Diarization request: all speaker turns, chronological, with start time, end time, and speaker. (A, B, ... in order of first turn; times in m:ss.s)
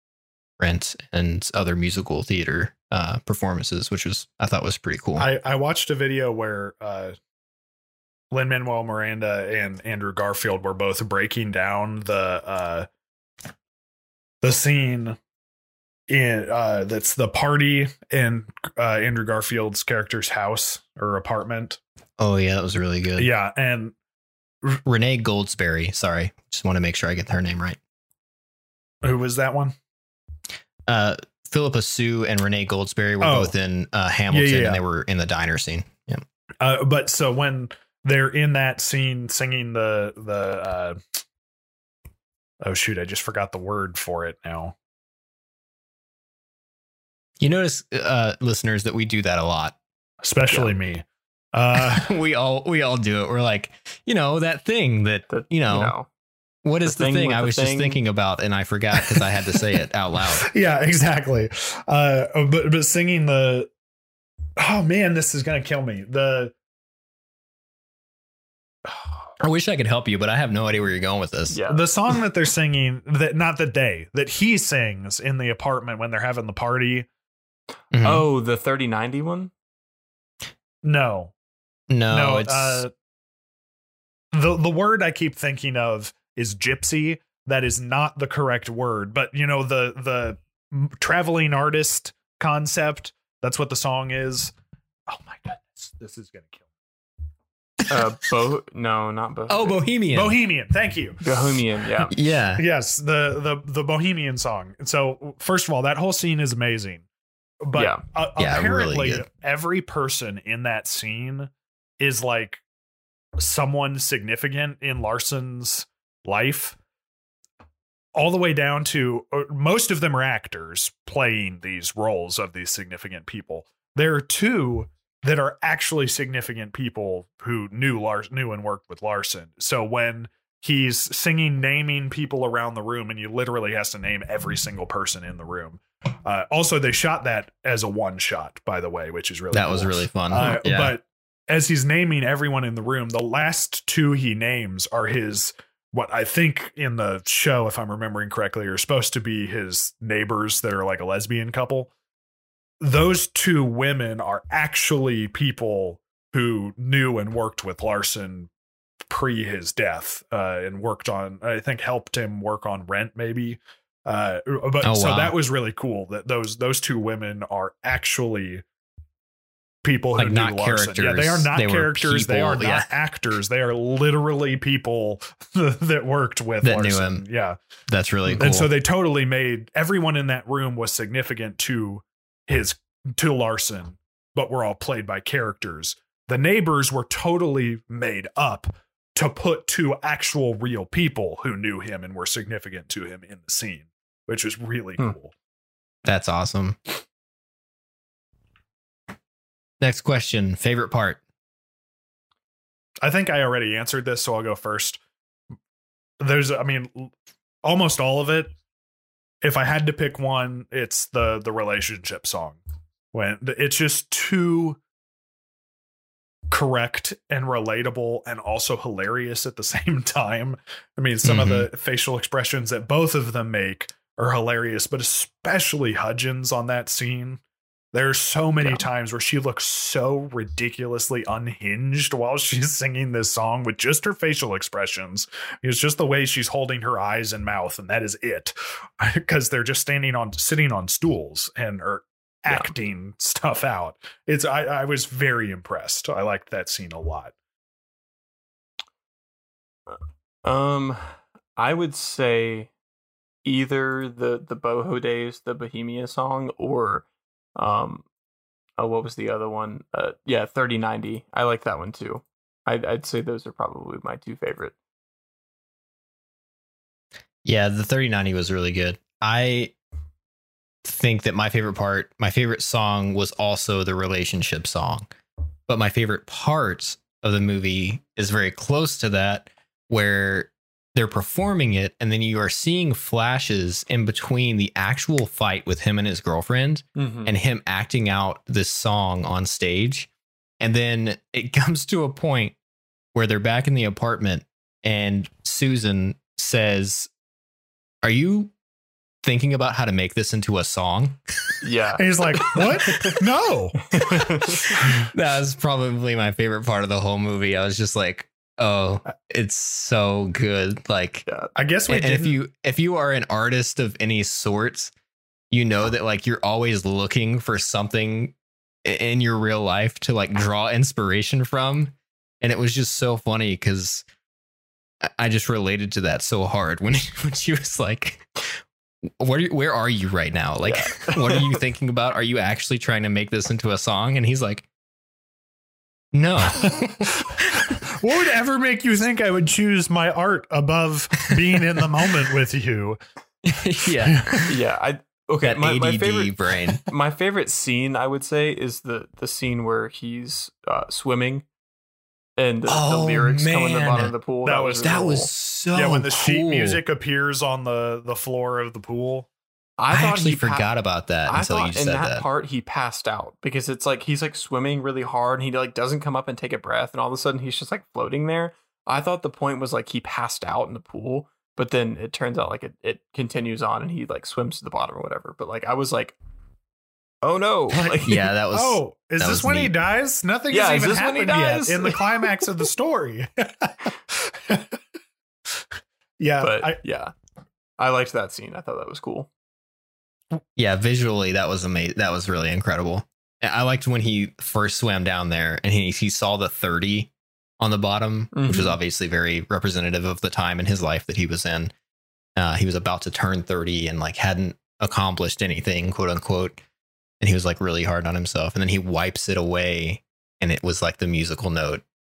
0:00.6-0:05.3 A
0:05.2-0:07.2 B
0:08.3-0:12.9 B
0:14.4-0:15.2 B
0:16.1-0:21.8 B
0:22.2-0:23.3 A
0:23.2-0:24.0 B
0:24.9-0:27.8 A
0:29.0-0:29.8 B
0:30.9-0:36.2 A
0:33.2-0:33.5 B
0:34.3-0:34.8 B
0:36.6-0:41.0 B
0:42.6-0:44.8 B
0:47.4-0:49.8 A
0:50.2-0:52.2 B
0:51.8-0:55.9 A
0:55.3-0:56.1 C
0:56.6-1:00.5 A
0:56.8-0:58.0 C
1:00.4-1:03.7 B
1:04.6-1:06.6 B
1:08.9-1:09.2 B
1:09.4-1:11.6 A
1:11.5-1:11.8 C
1:11.7-1:17.1 B
1:17.9-1:18.2 A
1:18.0-1:19.5 C
1:20.8-1:21.3 B
1:21.9-1:22.8 A
1:22.1-1:22.9 B
1:24.3-1:34.5 B
1:35.1-1:36.7 B
1:37.9-1:39.8 C
1:39.5-1:40.4 A
1:40.1-1:41.6 B
1:41.2-1:42.2 C
1:42.1-1:42.6 A
1:42.6-1:47.0 B
1:47.6-1:52.6 B
1:47.8-1:48.0 C
1:48.4-1:49.2 A
1:53.4-1:56.8 B
1:58.2-2:31.9 B
2:19.5-2:21.0 A
2:32.8-2:38.5 B
2:39.1-2:48.6 B
2:44.8-2:45.4 A
2:49.8-2:57.6 B
2:50.2-2:52.9 A
2:56.6-2:57.2 A
2:57.9-2:58.7 A
2:58.4-3:15.3 B
3:16.0-3:16.8 A
3:19.8-3:21.2 A
3:23.0-3:25.0 B
3:26.2-3:28.5 B
3:29.4-3:32.6 B
3:33.1-3:34.8 B
3:36.5-3:47.4 B
3:41.2-3:41.7 A
3:47.9-4:07.3 B
4:09.9-4:12.7 C
4:13.4-4:17.0 C
4:17.6-4:18.1 C
4:18.8-4:24.8 C
4:27.4-4:29.7 A
4:30.8-4:35.1 A
4:35.7-4:50.1 A
4:47.0-4:47.3 C
4:50.6-4:52.6 A
4:53.1-4:57.1 A
4:58.0-4:58.5 A
4:59.2-5:01.6 A
5:01.6-5:03.1 C
5:02.0-5:05.1 B
5:03.9-5:04.8 C
5:05.1-5:11.3 A
5:11.6-5:12.4 B
5:11.9-5:14.9 A
5:15.5-5:24.0 A
5:25.0-5:28.6 A
5:29.2-5:34.7 A
5:30.6-5:31.6 C
5:36.1-5:37.7 A
5:36.5-5:43.0 B
5:43.4-5:44.5 A
5:43.8-5:44.5 B
5:44.5-5:46.3 C
5:45.4-5:46.8 A
5:46.8-5:51.4 C
5:52.4-5:55.3 C
5:52.7-5:54.1 A
5:54.4-5:55.0 B
5:54.8-5:56.8 A
5:55.7-5:59.3 B
5:59.8-6:00.7 C
5:59.9-6:02.2 A
6:01.3-6:16.2 C
6:17.2-6:18.2 C
6:17.7-6:24.8 B
6:18.0-6:19.7 A
6:20.5-6:22.2 C
6:26.2-6:26.8 B
6:26.4-6:27.1 C
6:27.8-6:29.3 C
6:30.6-6:41.7 A
6:38.3-6:38.8 C
6:42.4-6:46.6 A
6:47.2-6:51.8 A